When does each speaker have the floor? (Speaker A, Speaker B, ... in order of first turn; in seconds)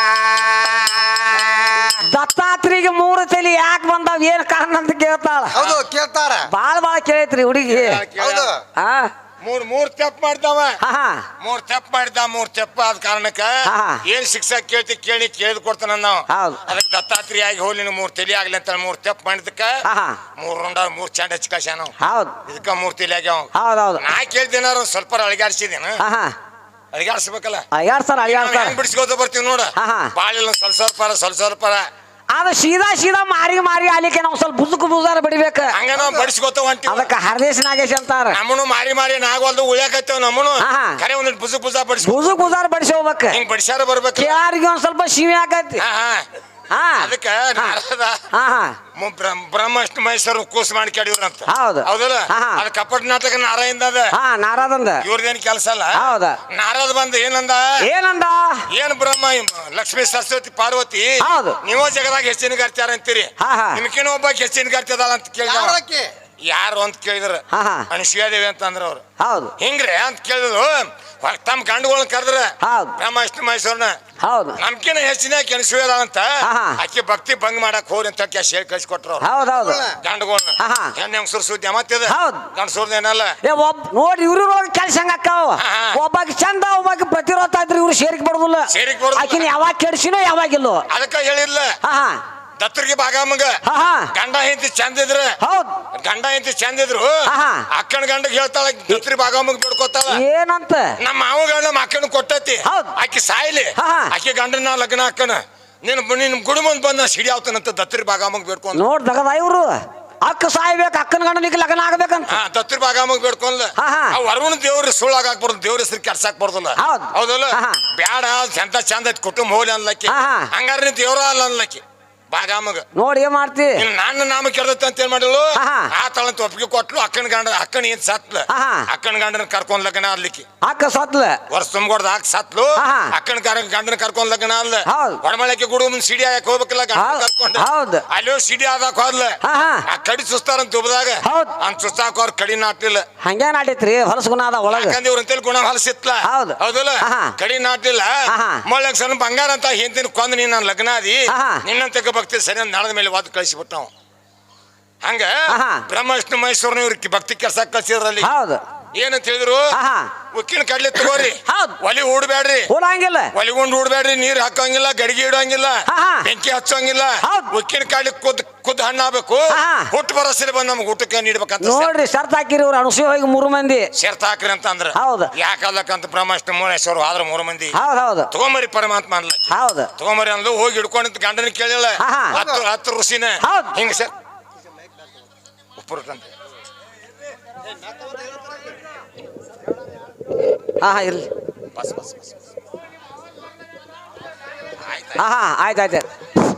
Speaker A: 2.0-5.6, 6.5-8.0, 8.8-9.1, 10.8-11.2, 13.6-14.0, 16.3-16.6, 19.8-20.2, 22.0-22.4, 23.5-24.0, 26.0-26.3, 27.7-28.8, 29.8-30.1, 32.3-35.7, 36.9-38.4, 40.6-41.0, 42.0-43.4, 44.1-45.8, 46.7-47.8, 48.3-48.8, 51.5-52.6, 54.1-55.0, 56.0-56.4, 57.8-58.6, 61.2-61.6, 63.4-63.8, 67.5-67.9, 69.2-69.5, 72.6-72.9, 74.2-74.6, 76.4-76.8, 79.2-79.8, 80.6-80.9, 82.1-82.5, 83.4-90.8, 91.8-92.2, 93.6-94.1, 95.4-95.8, 97.3-97.6, 100.1-100.9, 102.6-102.9, 103.8-104.1, 108.7-112.4, 113.8-114.2, 116.8-117.8, 120.1-120.5, 122.9-123.8, 125.5-125.9, 128.5-128.9, 130.6-131.4, 132.8-133.1, 134.8-135.2, 136.9-138.0, 139.4-139.8, 141.2-141.5, 143.2-145.0, 146.2-147.3, 148.3-148.6, 151.3-151.6, 155.5-155.8, 158.2-158.6, 159.7-160.1, 161.0-161.8, 162.7-163.3, 165.9-166.3, 167.2-167.5, 169.5-169.9, 171.6-173.9, 174.9-175.3, 177.7-178.3, 179.5-179.9, 182.0-182.4, 183.4-183.8, 190.8-191.3, 195.1-196.0
Speaker B: 5.5-6.5, 8.2-8.6, 35.9-36.3, 65.4-66.1, 79.4-80.0, 182.3-182.6
Speaker C: 5.5-5.8, 7.7-8.5, 9.4-10.8, 11.4-19.8, 20.4-21.9, 22.5-26.0, 26.9-27.6, 28.2-31.8, 35.7-37.1, 38.3-42.3, 43.3-44.4, 45.8-46.2, 47.0-48.2, 49.0-54.1, 55.0-57.6, 58.7-65.8, 66.5-69.0, 69.6-74.0, 74.6-79.3, 80.0-83.4, 85.6-86.0, 88.7-89.5, 90.9-91.8, 92.6-93.6, 94.1-95.4, 95.9-97.1, 97.7-100.2, 101.0-108.8, 112.3-122.8, 123.8-130.4, 131.5-143.1, 144.7-153.9, 155.0-155.3, 155.9-158.3, 158.9-159.7, 160.3-162.7, 163.3-171.9, 173.9-177.8, 178.3-184.1, 185.8-186.2, 191.8-192.3, 194.9-195.2